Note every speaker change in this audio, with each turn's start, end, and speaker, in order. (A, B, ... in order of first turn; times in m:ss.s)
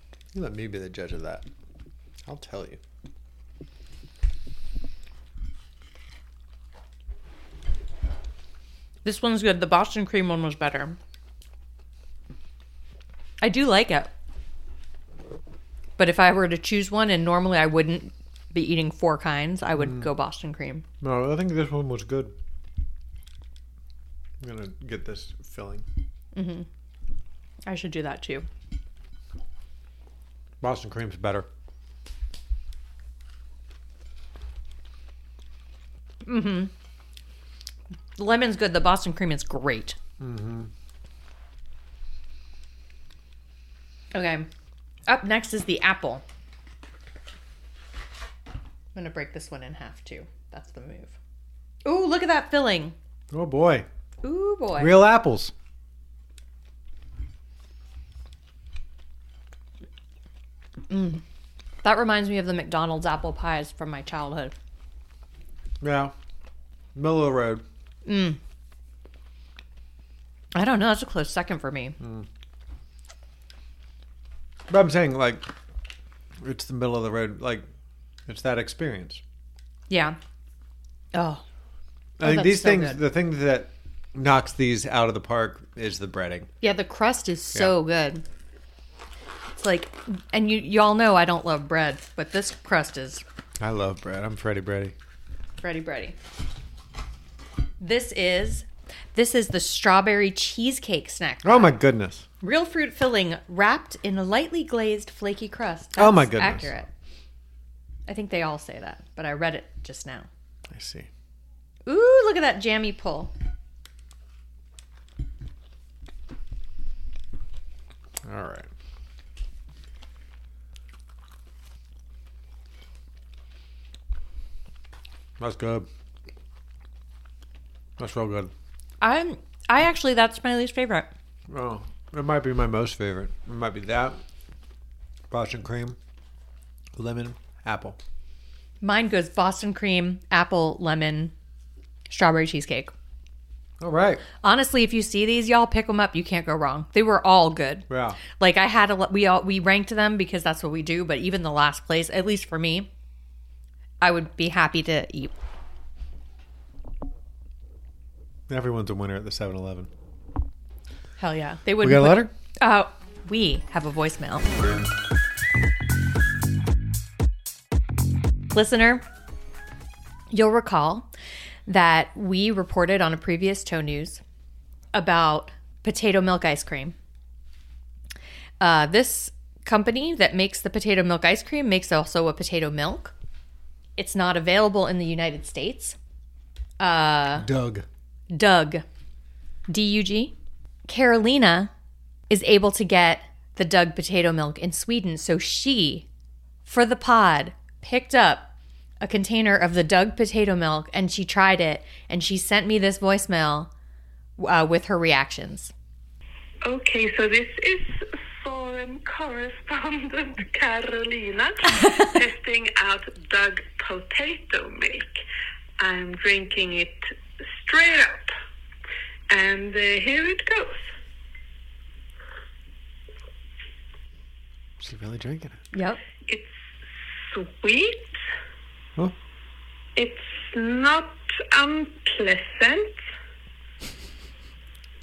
0:00.3-0:01.4 A
0:02.2-0:02.8 A
0:09.0-0:11.0 B
0:13.4-0:14.1 B
0:16.0-0:20.8 B
0:19.8-0:20.1 A
0:21.0-0:22.3 A
0:24.4-0:25.8 A
0:26.3-0:26.6 B
0:27.6-0:28.5 B
0:30.6-0:31.5 A
0:36.2-0:36.7 B
0:38.2-0:40.0 B
0:40.2-0:40.7 A
0:44.1-0:44.5 B
0:45.1-0:46.2 B
0:48.9-0:51.2 B
0:51.8-0:52.9 B
0:53.3-0:53.8 A
0:54.2-0:54.9 B
0:54.8-0:55.5 A
1:00.9-1:01.2 B
1:01.8-1:04.5 B
1:05.8-1:06.1 A
1:06.9-1:07.6 A
1:08.0-1:08.4 B
1:10.5-1:12.0 B
1:12.0-1:12.3 A
1:14.7-1:15.5 A
1:16.4-1:17.6 A
1:18.3-1:19.2 A
1:19.9-1:20.2 B
1:21.1-1:21.4 B
1:22.2-1:26.5 A
1:22.2-1:23.0 B
1:26.6-1:28.2 B
1:29.6-1:33.2 B
1:33.6-1:34.9 A
1:35.6-1:36.2 B
1:37.8-1:41.8 B
1:41.4-1:42.2 A
1:42.4-1:46.9 B
1:46.0-1:46.7 A
1:48.1-1:50.3 B
1:50.7-1:51.1 A
1:51.8-1:53.3 B
1:58.2-1:58.7 A
2:05.4-2:05.9 A
2:08.0-2:08.5 A
2:09.0-2:11.1 B
2:11.5-2:14.2 A
2:15.3-2:16.0 A
2:16.9-2:18.0 A
2:18.8-2:21.3 B
2:22.1-2:22.9 B
2:23.8-2:24.2 A
2:24.4-2:32.9 B
2:27.9-2:28.2 A
2:34.0-2:35.3 B
2:38.5-2:39.9 A
2:41.2-2:44.5 B
2:41.8-2:42.3 A
2:48.5-2:49.0 B
2:50.3-2:51.1 B
2:51.7-2:54.2 B
2:54.9-2:56.9 B
2:58.6-3:03.1 B
3:04.0-3:06.0 B
3:06.8-3:07.5 B
3:07.3-3:07.8 A
3:08.3-3:08.8 B
3:09.7-3:10.3 B
3:10.8-3:11.7 B
3:12.3-3:16.0 B
3:16.6-3:23.7 B
3:24.4-3:25.7 B
3:26.6-3:35.2 C
3:35.8-3:38.3 C
3:39.3-3:40.8 C
3:44.8-3:45.6 A
3:45.7-3:46.0 B
3:46.2-3:46.5 C
3:47.2-3:48.1 C
3:50.0-3:53.0 C